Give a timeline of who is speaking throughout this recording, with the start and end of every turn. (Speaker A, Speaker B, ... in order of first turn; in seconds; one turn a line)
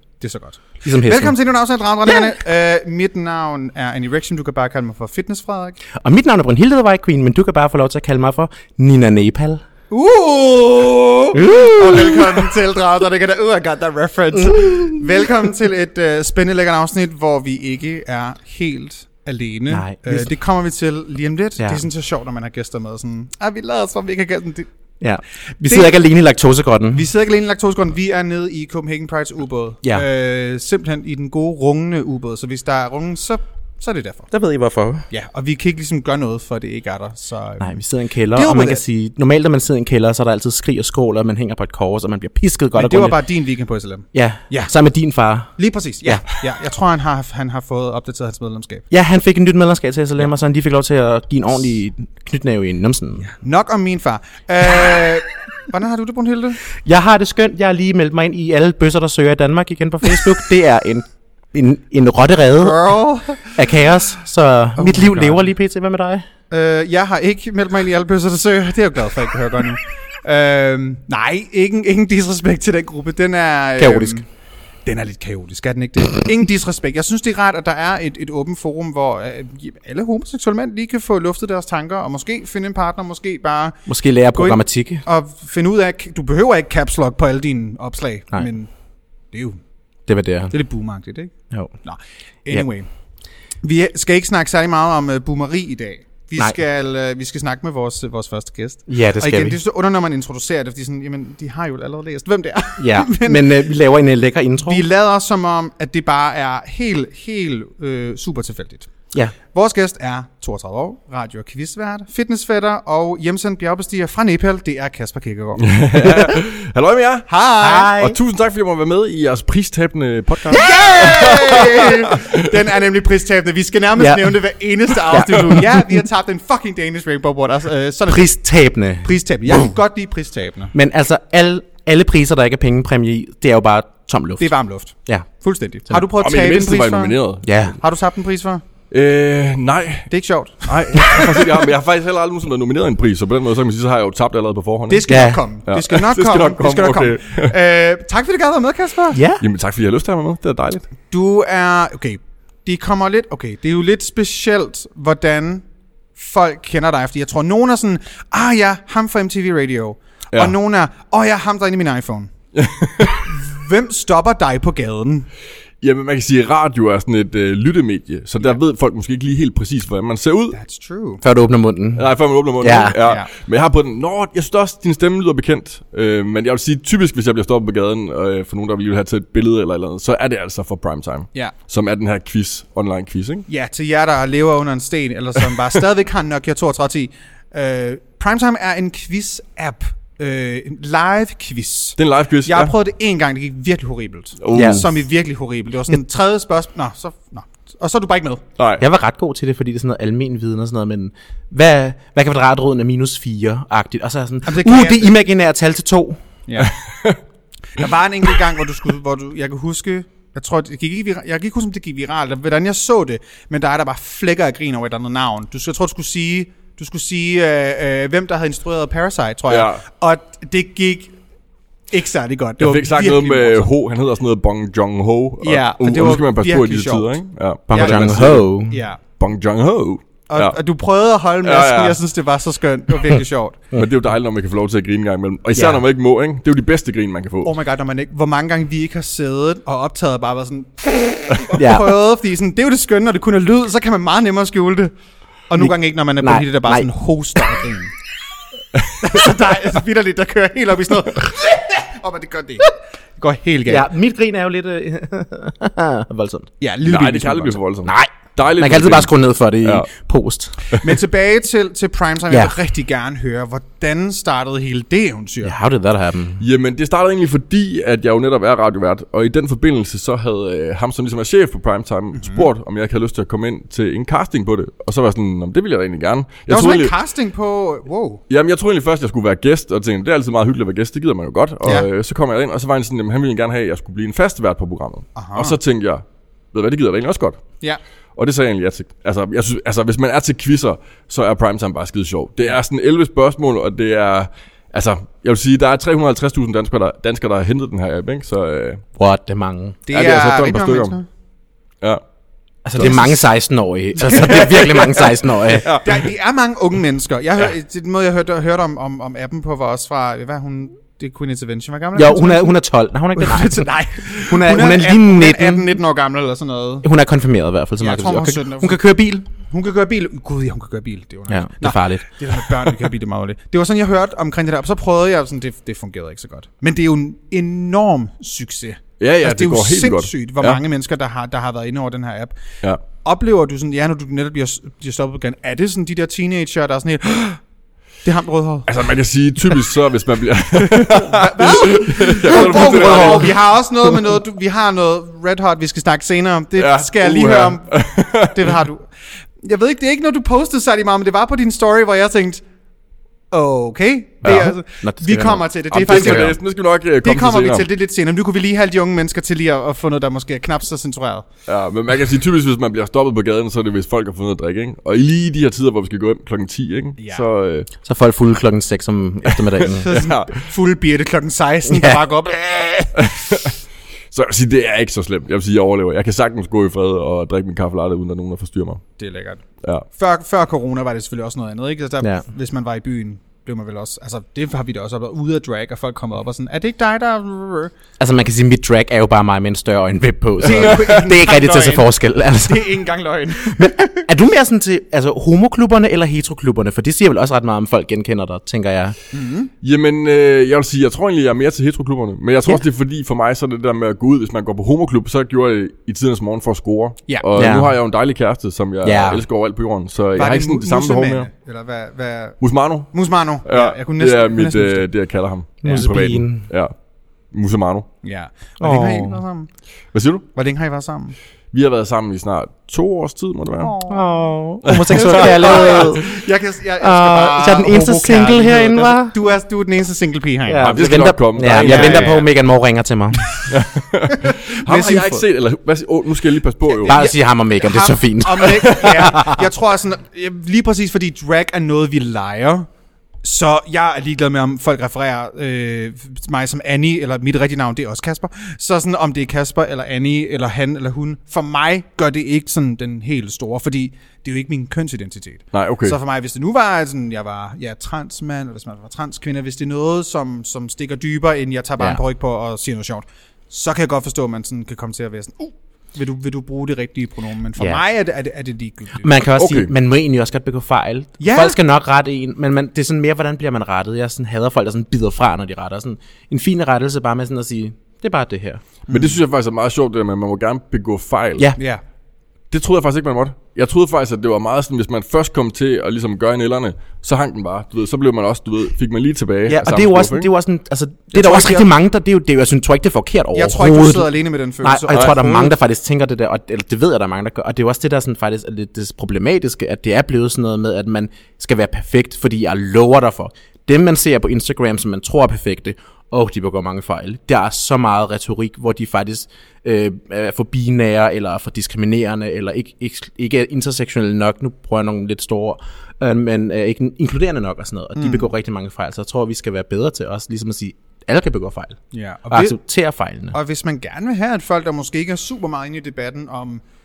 Speaker A: 0.2-5.8
Speaker B: 0.8-1.4
Speaker B: 6.0-9.6
Speaker A: 9.9-24.7
Speaker B: 11.3-12.5
Speaker B: 14.4-15.0
Speaker B: 19.7-20.3
Speaker B: 25.0-27.1
Speaker A: 25.6-26.0
Speaker A: 26.9-34.3
Speaker B: 34.3-35.1
Speaker A: 35.1-37.7
Speaker B: 37.6-43.2
Speaker A: 38.3-38.8
Speaker A: 42.8-44.7
Speaker B: 44.1-45.5
Speaker A: 45.6-48.8
Speaker B: 48.9-53.3
Speaker A: 53.3-56.6
Speaker B: 56.9-62.9
Speaker A: 62.6-63.6
Speaker B: 63.5-66.2
Speaker A: 64.8-65.4
Speaker A: 66.5-74.2
Speaker B: 73.8-74.2
Speaker A: 74.8-88.7
Speaker B: 83.9-85.0
Speaker A: 89.3-89.6
Speaker B: 90.1-90.5
Speaker A: 90.5-91.3
Speaker A: 91.8-92.9
Speaker A: 93.6-103.7
Speaker B: 98.9-99.6
Speaker B: 102.8-104.8
Speaker A: 104.7-108.9
Speaker A: 109.5-115.7
Speaker C: 115.6-117.3
Speaker A: 117.3-117.9
Speaker B: 117.6-118.2
Speaker C: 117.9-122.6
Speaker A: 120.5-128.3
Speaker B: 124.0-124.4
Speaker B: 125.1-126.0
Speaker B: 128.1-129.7
Speaker A: 129.0-130.7
Speaker B: 130.7-134.6
Speaker A: 134.4-138.6
Speaker C: 136.2-137.5
Speaker B: 137.4-137.8
Speaker C: 138.9-140.1
Speaker A: 140.1-141.5
Speaker C: 140.7-145.1
Speaker A: 144.9-149.2
Speaker B: 145.1-145.4
Speaker C: 145.7-147.5
Speaker B: 149.1-149.4
Speaker C: 149.4-150.9
Speaker A: 151.1-155.6
Speaker A: 156.2-162.3
Speaker C: 162.6-163.3
Speaker A: 163.1-165.3
Speaker C: 165.8-170.6
Speaker A: 170.5-171.2
Speaker B: 171.2-173.0
Speaker C: 172.0-183.5
Speaker A: 172.9-173.3
Speaker A: 183.5-198.4
Speaker C: 192.0-192.7
Speaker C: 194.4-194.9
Speaker B: 194.5-194.8
Speaker C: 198.6-198.8
Speaker B: 198.8-206.2
Speaker A: 204.5-205.1
Speaker A: 206.5-206.7
Speaker C: 206.6-207.2
Speaker A: 207.8-221.1
Speaker C: 219.5-219.8
Speaker A: 221.9-223.7
Speaker C: 222.6-228.5
Speaker A: 225.4-227.2
Speaker B: 227.7-228.8
Speaker A: 227.7-229.0
Speaker C: 229.2-230.6
Speaker A: 230.3-233.6
Speaker C: 231.4-232.0
Speaker C: 233.8-237.5
Speaker B: 235.6-235.8
Speaker A: 237.4-244.9
Speaker B: 241.5-242.0
Speaker A: 245.5-247.9
Speaker B: 245.6-246.9
Speaker A: 249.0-253.9
Speaker B: 253.7-256.5
Speaker A: 256.6-257.6
Speaker C: 256.9-259.9
Speaker B: 257.9-260.5
Speaker A: 260.7-265.6
Speaker B: 265.4-266.4
Speaker C: 266.4-276.9
Speaker A: 272.1-272.5
Speaker A: 276.5-278.2
Speaker C: 278.3-287.4
Speaker A: 285.2-285.6
Speaker C: 288.2-298.8
Speaker B: 299.0-299.8
Speaker A: 299.9-301.1
Speaker C: 299.9-300.9
Speaker B: 302.6-305.7
Speaker A: 302.8-303.2
Speaker A: 304.0-304.9
Speaker C: 305.5-305.9
Speaker A: 305.8-312.6
Speaker B: 311.9-315.7
Speaker A: 313.2-316.9
Speaker B: 316.8-319.3
Speaker A: 317.8-332.4
Speaker B: 321.3-322.1
Speaker C: 329.0-330.6
Speaker A: 333.0-337.4
Speaker A: 338.0-338.7
Speaker C: 338.7-343.4
Speaker A: 340.6-348.9
Speaker B: 342.3-343.3
Speaker C: 346.6-348.6
Speaker A: 349.4-352.4
Speaker A: 353.3-356.4
Speaker C: 354.2-354.5
Speaker B: 354.2-356.3
Speaker C: 355.7-357.7
Speaker A: 357.0-361.3
Speaker C: 361.5-367.7
Speaker A: 367.0-367.2
Speaker B: 367.8-369.9
Speaker C: 369.3-370.4
Speaker A: 369.7-373.1
Speaker B: 371.7-372.0
Speaker C: 373.0-373.6
Speaker C: 374.1-378.8
Speaker A: 379.0-387.7
Speaker B: 388.0-392.8
Speaker A: 390.4-394.1
Speaker B: 393.4-399.0
Speaker A: 399.1-399.5
Speaker C: 399.6-411.3
Speaker B: 407.4-407.8
Speaker B: 408.8-409.2
Speaker A: 410.1-414.9
Speaker C: 412.4-412.9
Speaker C: 413.4-416.8
Speaker B: 415.6-416.5
Speaker C: 417.3-417.9
Speaker A: 418.0-419.5
Speaker B: 418.6-419.2
Speaker C: 419.9-420.2
Speaker A: 420.4-421.2
Speaker C: 421.5-423.8
Speaker A: 423.6-424.1
Speaker B: 423.9-426.1
Speaker C: 424.6-426.1
Speaker A: 424.9-430.9
Speaker B: 426.8-429.1
Speaker B: 430.5-433.3
Speaker C: 430.6-432.3
Speaker A: 431.5-432.3
Speaker C: 433.4-437.0
Speaker A: 434.2-435.2
Speaker A: 436.8-442.7
Speaker B: 436.9-439.4
Speaker C: 438.6-439.0
Speaker A: 443.2-469.1
Speaker C: 455.5-456.0
Speaker B: 469.0-478.6
Speaker C: 469.4-469.7
Speaker A: 471.2-471.6
Speaker C: 478.9-481.4
Speaker A: 481.6-481.8
Speaker C: 482.5-490.3
Speaker B: 489.5-521.8
Speaker A: 491.1-491.7
Speaker A: 493.3-495.5
Speaker A: 518.0-518.3
Speaker A: 521.9-522.6
Speaker B: 522.3-523.4
Speaker A: 523.3-526.6